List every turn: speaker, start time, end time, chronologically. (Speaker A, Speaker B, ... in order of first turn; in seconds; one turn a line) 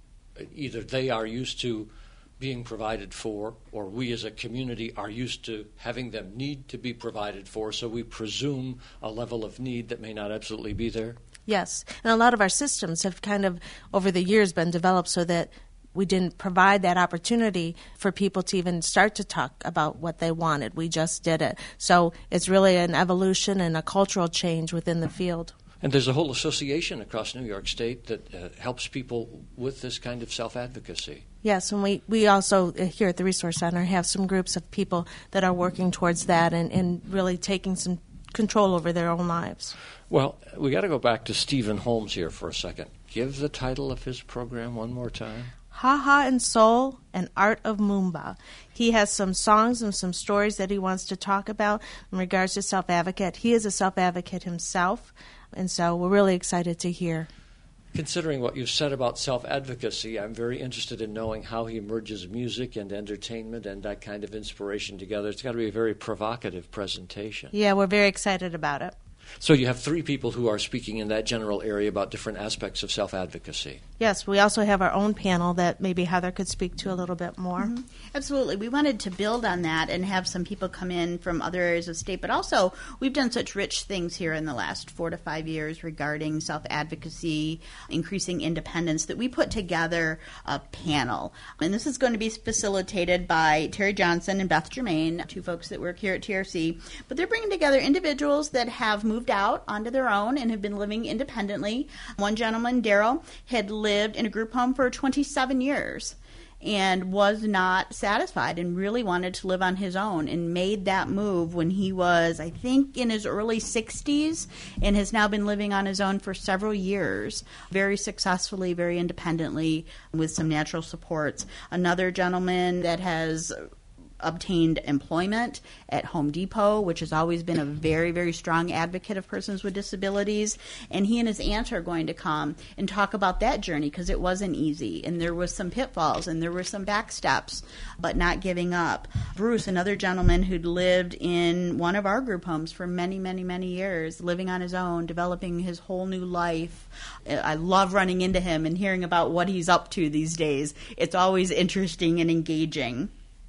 Speaker A: 0.4-11.2
Speaker B: 11.5-25.5
Speaker A: 25.8-31.2
Speaker B: 31.4-39.8
Speaker A: 40.1-45.5
Speaker B: 45.7-57.3
Speaker A: 57.9-67.5
Speaker B: 67.5-69.0
Speaker A: 69.4-73.8
Speaker B: 74.0-77.7
Speaker C: 77.6-123.7
Speaker C: 124.2-153.1